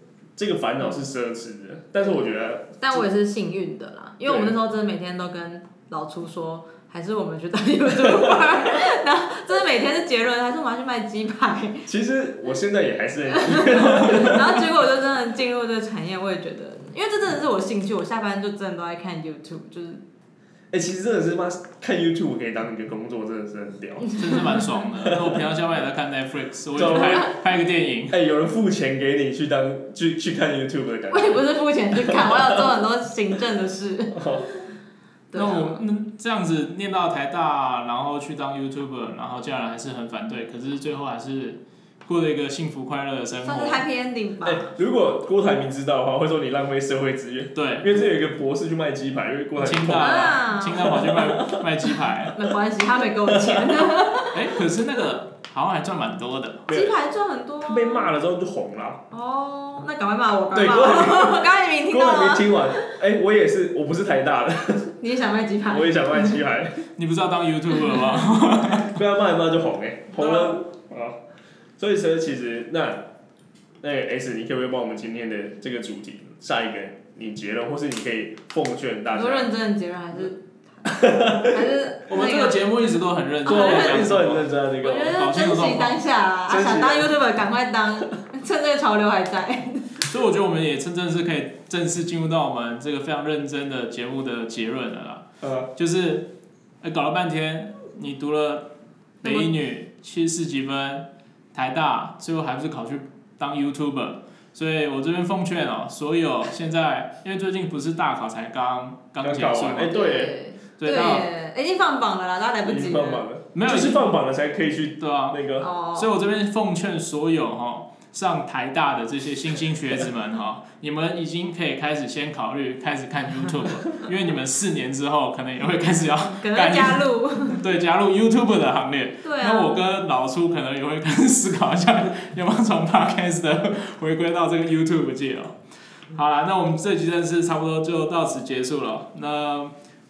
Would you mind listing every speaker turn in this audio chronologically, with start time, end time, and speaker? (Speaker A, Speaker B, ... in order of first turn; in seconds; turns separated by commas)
Speaker A: 0.3-3.0, Speaker B: 2.8-11.9, Speaker A: 4.2-4.5, Speaker A: 8.0-8.5, Speaker A: 11.9-14.7, Speaker B: 13.3-20.0, Speaker A: 20.7-24.1, Speaker C: 24.1-28.2, Speaker A: 25.0-25.4, Speaker A: 26.8-27.3, Speaker B: 27.0-27.2, Speaker A: 28.1-32.6, Speaker B: 31.1-34.6, Speaker A: 34.1-34.5, Speaker B: 35.3-35.8, Speaker C: 35.3-43.8, Speaker B: 43.4-44.7, Speaker A: 44.4-52.3, Speaker C: 47.5-47.9, Speaker C: 49.6-52.4, Speaker B: 49.9-51.1, Speaker B: 52.3-54.5, Speaker A: 53.2-53.9, Speaker C: 54.3-56.7, Speaker A: 56.7-56.9, Speaker B: 56.7-58.1, Speaker A: 57.6-59.0, Speaker B: 59.1-63.0, Speaker A: 60.5-65.0, Speaker B: 65.0-66.4, Speaker A: 65.7-66.8, Speaker C: 67.0-68.9, Speaker A: 68.6-71.2, Speaker C: 70.2-70.6, Speaker A: 71.8-73.0, Speaker A: 73.8-79.5, Speaker B: 79.1-84.1, Speaker A: 80.9-81.7, Speaker C: 82.1-84.5, Speaker A: 83.4-85.2, Speaker B: 84.8-90.0, Speaker C: 85.0-86.0, Speaker A: 86.5-87.1, Speaker C: 90.0-98.7, Speaker A: 95.4-95.7, Speaker C: 99.2-110.0, Speaker B: 99.2-99.5, Speaker A: 109.2-110.4, Speaker B: 109.8-113.2, Speaker C: 110.8-111.3, Speaker A: 112.6-115.7, Speaker C: 113.5-114.1, Speaker C: 115.0-115.4, Speaker B: 115.6-116.1, Speaker C: 115.9-135.6, Speaker B: 126.2-127.6, Speaker B: 129.2-129.8, Speaker C: 136.1-139.7